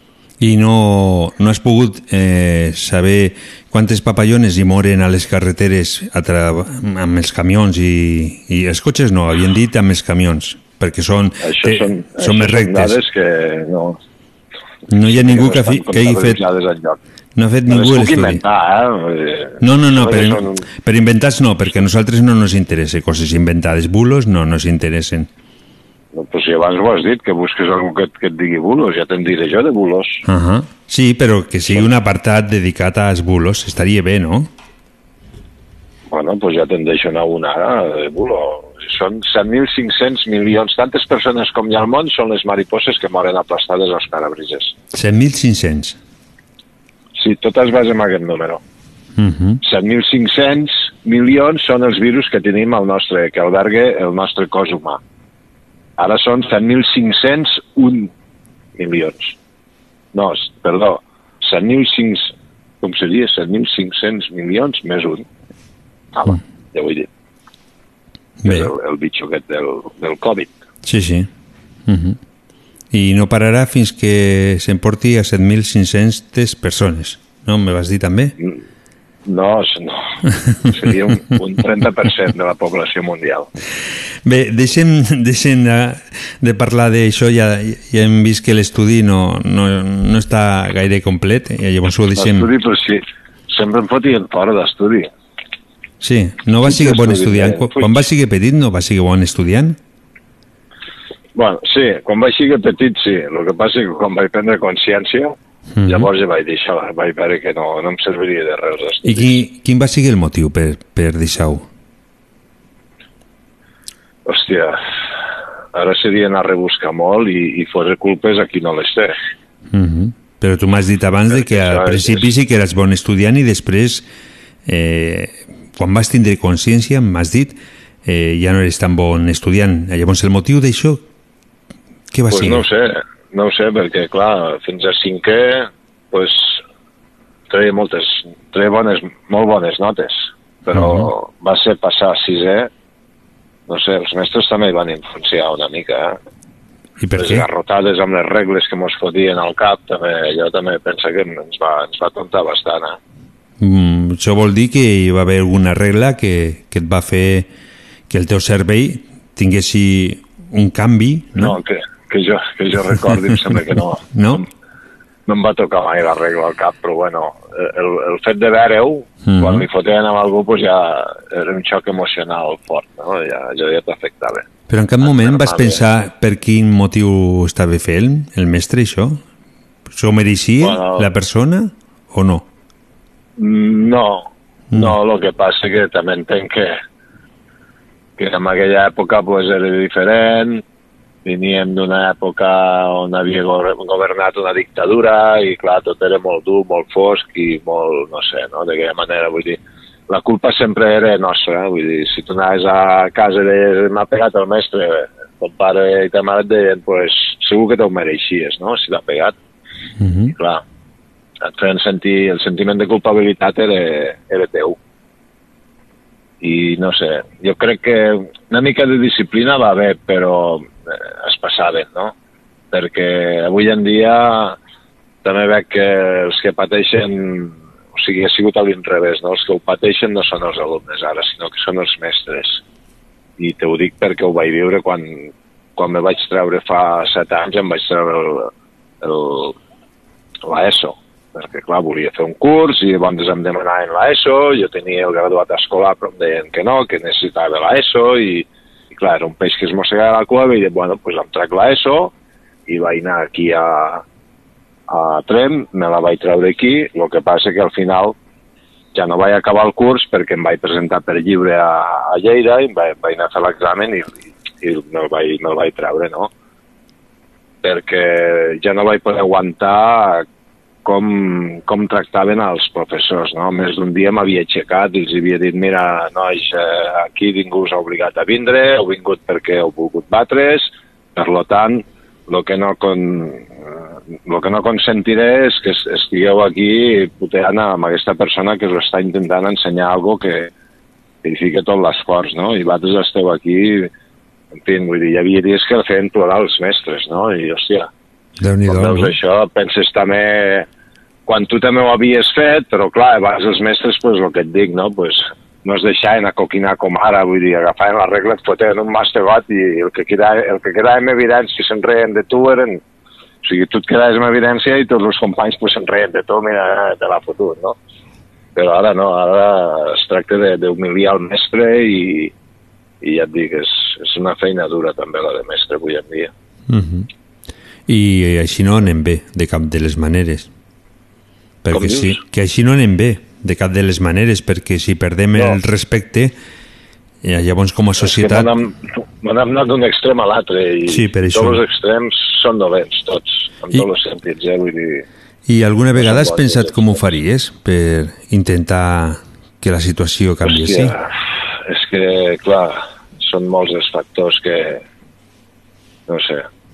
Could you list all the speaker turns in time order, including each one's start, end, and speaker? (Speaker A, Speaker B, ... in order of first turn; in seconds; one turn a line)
Speaker A: 0.4-13.0
Speaker B: 11.4-14.0
Speaker A: 14.9-16.4
Speaker B: 15.1-17.0
Speaker A: 17.4-18.4
Speaker B: 17.7-20.5
Speaker A: 19.6-25.3
Speaker B: 26.1-30.2
Speaker A: 30.2-34.5
Speaker B: 36.1-44.7
Speaker A: 44.9-46.0
Speaker B: 47.2-48.6
Speaker A: 49.2-49.6
Speaker B: 49.6-55.0
Speaker B: 56.0-58.1
Speaker B: 58.8-59.3
Speaker B: 60.1-62.3
Speaker B: 62.8-65.2
Speaker B: 66.2-67.1
Speaker A: 68.4-68.7
Speaker B: 68.5-70.5
Speaker A: 70.8-71.3
Speaker A: 71.8-72.2
Speaker A: 72.9-78.3
Speaker B: 79.3-80.0
Speaker B: 80.7-83.5
Speaker A: 84.2-92.5
Speaker B: 92.2-95.1
Speaker A: 96.0-99.8
Speaker B: 96.6-98.0
Speaker B: 101.3-105.3
Speaker A: 105.8-106.0
Speaker B: 105.9-109.4
Speaker A: 109.1-111.7
Speaker B: 114.3-114.8
Speaker B: 115.7-119.1
Speaker A: 119.7-124.0
Speaker B: 121.3-122.2
Speaker A: 124.7-131.0
Speaker A: 132.1-132.6
Speaker B: 132.3-136.6
Speaker B: 137.5-142.7
Speaker A: 140.7-141.1
Speaker B: 143.7-146.2
Speaker A: 147.0-147.4
Speaker B: 147.2-153.0
Speaker A: 153.6-157.5
Speaker A: 158.1-161.6
Speaker B: 161.4-164.4
Speaker A: 164.1-164.4
Speaker B: 165.3-174.4
Speaker A: 169.2-169.6
Speaker A: 174.7-179.2
Speaker B: 175.0-175.8
Speaker A: 179.9-182.4
Speaker B: 180.6-181.1
Speaker B: 183.4-186.8
Speaker B: 188.2-190.6
Speaker B: 191.2-209.3
Speaker A: 210.0-210.3
Speaker B: 210.3-210.6
Speaker B: 211.4-214.8
Speaker B: 216.4-222.1
Speaker B: 222.7-224.6
Speaker B: 225.2-232.6
Speaker B: 233.4-238.5
Speaker B: 239.0-239.5
Speaker B: 240.5-252.1
Speaker B: 252.7-254.0
Speaker B: 254.9-258.1
Speaker B: 258.9-266.3
Speaker B: 267.6-270.2
Speaker B: 270.8-290.5
Speaker B: 291.2-293.9
Speaker B: 294.5-297.9
Speaker A: 298.4-299.1
Speaker B: 298.7-300.6
Speaker B: 301.3-312.8
Speaker B: 313.4-317.8
Speaker B: 318.6-322.3
Speaker B: 323.0-326.3
Speaker A: 326.7-327.1
Speaker A: 327.9-330.5
Speaker A: 331.6-336.3
Speaker B: 331.7-332.2
Speaker A: 337.2-338.5
Speaker B: 338.0-345.0
Speaker A: 340.9-341.6
Speaker A: 345.5-350.9
Speaker B: 346.0-347.0
Speaker B: 350.4-351.1
Speaker B: 351.7-354.8
Speaker B: 356.1-356.5